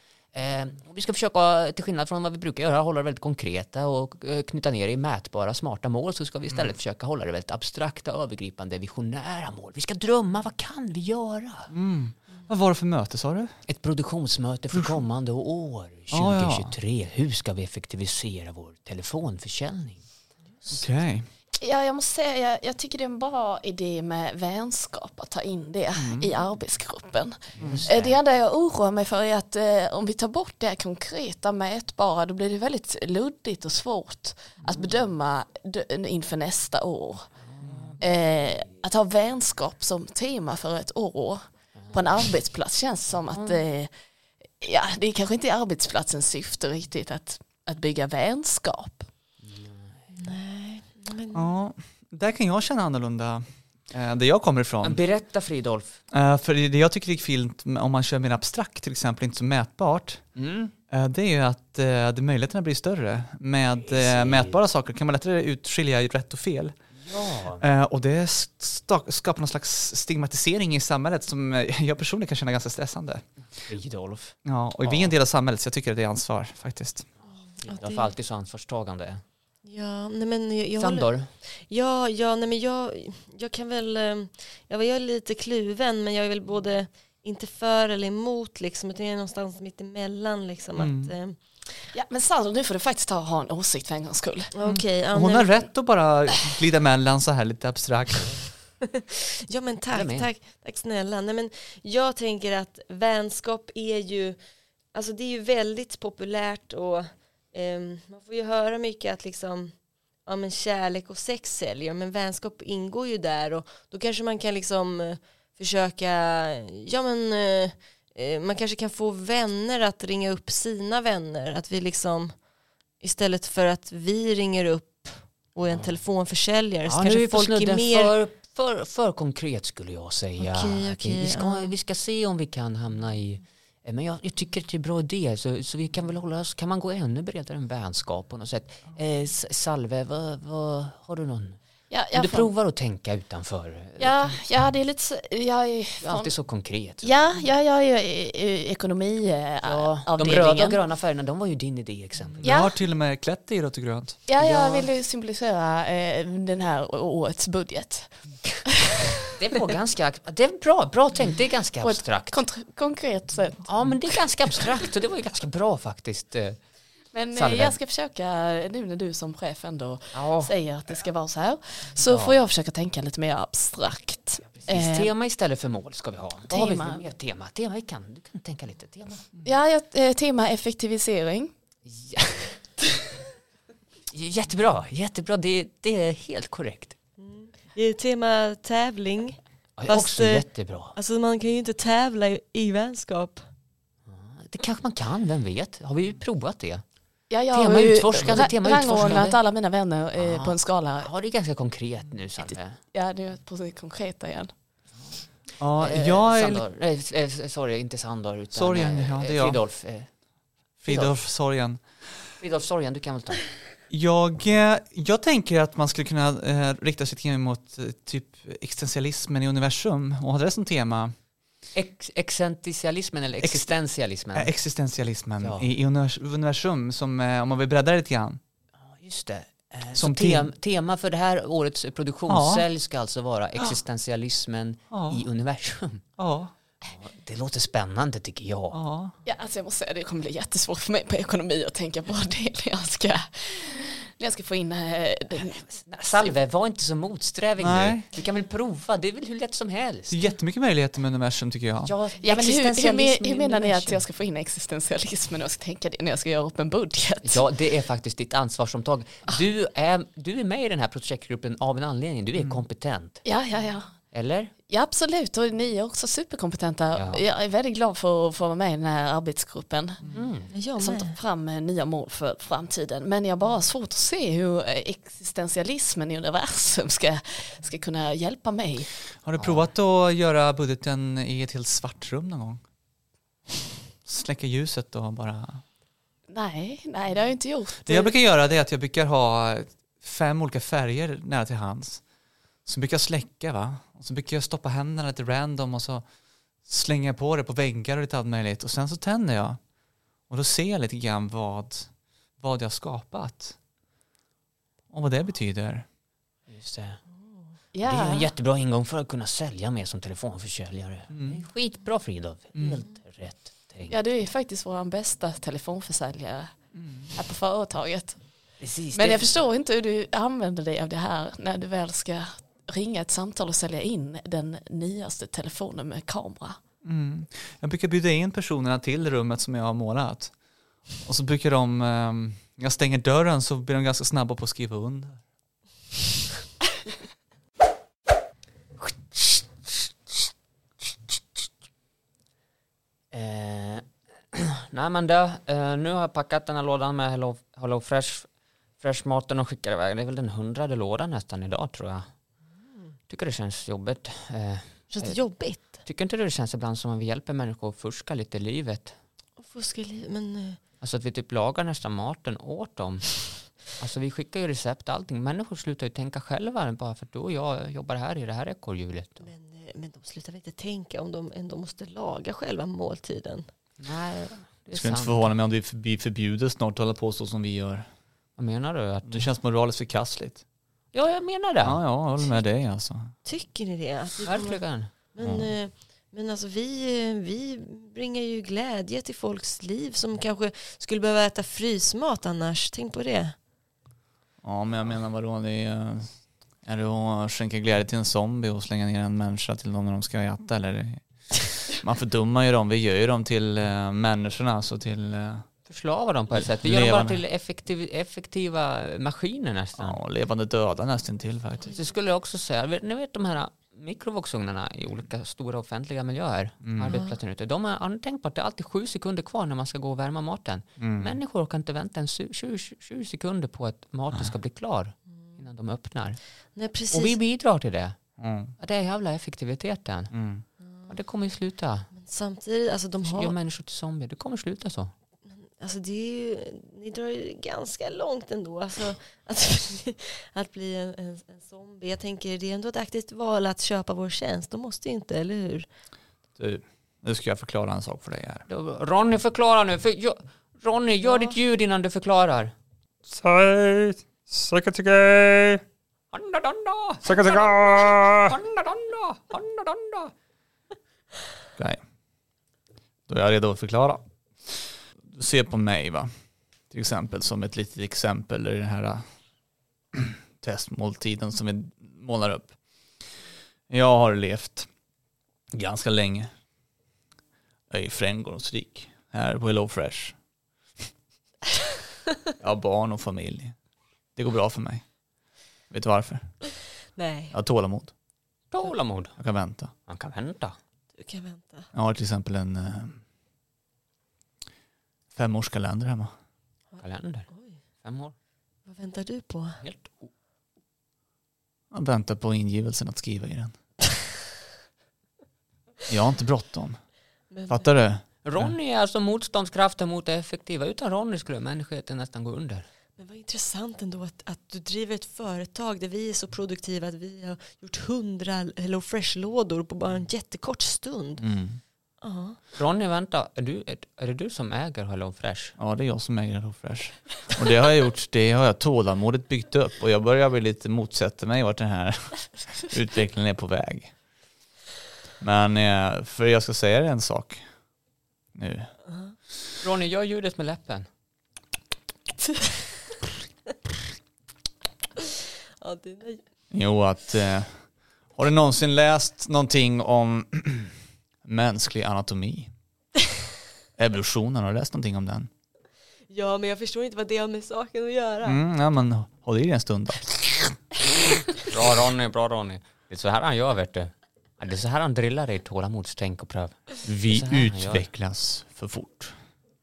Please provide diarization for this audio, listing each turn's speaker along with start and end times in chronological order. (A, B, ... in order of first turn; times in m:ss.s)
0:00.3-0:11.7 A
0:11.7-0:13.5 B
0:13.7-0:20.0 A
0:14.7-0:15.0 B
0:16.1-0:16.7 B
0:20.7-0:21.2 B
0:21.6-0:37.3 C
0:25.9-0:26.3 B
0:27.6-0:28.2 A
0:27.6-0:27.8 B
0:37.6-0:38.0 A
0:37.6-0:37.9 B
0:38.0-0:43.9 C
0:43.3-0:43.6 A
0:44.6-0:49.1 C
0:49.4-0:49.9 A
0:50.1-0:51.5 D
0:51.3-0:55.0 B
0:54.8-0:56.0 A
0:56.1-1:00.2 B
1:00.4-1:00.7 A
1:00.9-1:06.8 B
1:03.9-1:04.6 A
1:07.0-1:07.6 A
1:07.6-1:13.2 B
1:13.6-1:15.1 A
1:14.4-1:17.1 B
1:17.6-1:19.2 A
1:17.6-1:18.1 D
1:19.6-1:31.4 D
1:20.8-1:21.3 A
1:30.8-1:31.1 B
1:31.9-1:34.5 C
1:34.5-1:35.5 D
1:34.6-1:38.4 B
1:38.9-1:44.4 D
1:39.9-1:40.3 A
1:44.9-1:49.7 D
1:50.2-2:02.3 D
2:03.0-2:08.1 D
2:05.7-2:06.0 A
2:06.9-2:21.6 A
2:10.4-2:11.7 D
2:21.9-2:22.5 C
2:22.1-2:24.4 A
2:24.0-2:26.3 C
2:26.0-2:27.1 A
2:27.0-2:30.8 C
2:29.6-2:32.5 A
2:32.4-2:34.2 B
2:32.4-2:32.7 C
2:34.3-2:38.1 C
2:34.4-2:34.9 A
2:38.7-2:39.1 C
2:39.3-2:42.4 A
2:41.8-2:43.7 C
2:43.6-2:46.6 A
2:47.1-2:55.1 C
2:47.4-2:47.8 A
2:50.1-2:50.5 A
2:52.0-2:52.4 A
2:54.6-2:59.2 A
2:56.5-2:57.0 C
2:59.4-3:01.5 C
3:01.9-3:02.5 A
3:04.1-3:07.0 A
3:07.2-3:13.4 D
3:09.8-3:10.9 A
3:14.1-3:16.8 A
3:17.3-3:21.1 C
3:17.5-3:19.4 A
3:20.2-3:22.8 A
3:22.9-3:24.5 C
3:25.6-3:26.6 B
3:25.8-3:30.1 A
3:28.5-3:29.6 B
3:30.8-3:31.8 B
3:30.9-3:31.2 A
3:32.4-3:33.5 A
3:33.9-3:41.1 B
3:41.7-3:44.5 A
3:43.4-3:43.7 B
3:44.4-3:48.4 B
3:45.4-3:45.7 A
3:48.8-3:56.0 A
3:49.9-3:50.5 B
3:52.3-3:52.6 B
3:54.9-3:55.2 B
3:56.2-3:56.5 B
3:56.8-3:58.8 A
3:58.7-3:59.1 B
3:59.2-4:05.6 C
4:05.4-4:10.2 A
4:07.6-4:08.0 B
4:10.1-4:11.9 B
4:11.8-4:13.9 A
4:12.2-4:17.4 C
4:12.6-4:13.9 D
4:17.2-4:23.2 A
4:23.2-4:23.9 C
4:24.1-4:24.5 A
4:24.7-4:30.0 C
4:26.9-4:27.2 A
4:30.1-4:30.5 A
4:30.5-4:31.2 D
4:30.8-4:38.9 C
4:39.2-4:42.6 B
4:39.4-4:39.6 A
4:44.0-4:45.6 B
4:46.3-4:48.1 C
4:47.8-4:52.0 B
4:52.6-4:56.0 B
4:56.6-4:59.6 B
5:00.3-5:03.6 B
5:04.9-5:05.8 B
5:06.5-5:07.0 A
5:07.7-5:08.3 C
5:07.8-5:14.0 A
5:11.1-5:11.4 B
5:12.5-5:12.8 B
5:13.9-5:16.5 C
5:16.8-5:17.1 B
5:17.1-5:18.2 C
5:18.6-5:19.3 A
5:18.9-5:26.6 C
5:26.8-5:30.3 B
5:31.0-5:35.2 B
5:43.1-5:52.1 A
5:53.1-5:59.0 A
5:54.9-5:55.8 D
5:59.4-6:00.6 D
6:00.8-6:09.3 A
6:09.2-6:13.5 D
6:13.8-6:15.3 A
6:14.7-6:17.9 B
6:18.4-6:19.3 A
6:19.1-6:20.4 B
6:20.9-6:21.8 A
6:21.6-6:23.1 B
6:23.2-6:33.4 D
6:24.2-6:24.9 A
6:25.2-6:25.5 B
6:34.4-6:36.1 B
6:36.6-6:41.0 B
6:41.6-6:45.5 B
6:45.7-6:50.0 A
6:46.4-6:47.2 B
6:49.8-6:51.7 B
6:51.6-7:06.2 A
6:56.6-6:57.0 B
7:00.8-7:01.1 B
7:06.5-7:07.2 D
7:06.9-7:08.0 A
7:08.2-7:08.5 B
7:08.6-7:10.1 A
7:10.1-7:10.4 B
7:10.9-7:11.9 A
7:11.9-7:13.4 D
7:13.0-7:14.9 A
7:15.5-7:25.7 D
7:26.4-7:28.4 B
7:28.5-7:32.5 A
7:31.1-7:31.3 D
7:33.1-7:35.6 E
7:36.1-7:40.1 A
7:37.0-7:38.4 E
7:43.1-7:46.1 B
7:46.7-7:49.0 B
7:49.9-7:52.5 B
7:53.7-7:54.7 B
7:55.5-7:56.3 B
7:57.7-8:00.2 B
8:02.4-8:03.5 B
8:04.2-8:04.8 B
8:05.7-8:06.3 B
8:07.0-8:07.3 D
8:07.3-8:07.9 B
8:08.5-8:09.2 A
8:09.2-8:09.7 B
8:09.9-8:10.6 A
8:11.0-8:11.7 D
8:11.7-8:13.0 B
8:15.1-8:16.1 B
8:16.7-8:17.6 D
8:16.8-8:17.3 A
8:17.8-8:18.1 A
8:18.7-8:19.6 D
8:19.6-8:20.1 A
8:21.7-8:23.5 B
8:25.9-8:26.8 B
8:27.3-8:27.6 D
8:27.5-8:28.5 B
8:28.2-8:32.6 A
8:33.0-8:41.2 D
8:41.2-8:41.6 B
8:42.0-8:42.4 D
8:42.6-8:45.6 A
8:45.6-8:53.9 B
8:55.2-8:57.4 B
8:58.4-8:58.7 B
8:59.6-9:00.9 A
9:05.6-9:06.2 D
9:06.5-9:07.5 B
9:08.2-9:10.7 B
9:11.2-9:12.5 B
9:13.8-9:15.3 B
9:16.1-9:18.4 D
9:18.2-9:20.6 B
9:21.4-9:27.8 A
9:26.8-9:29.1 B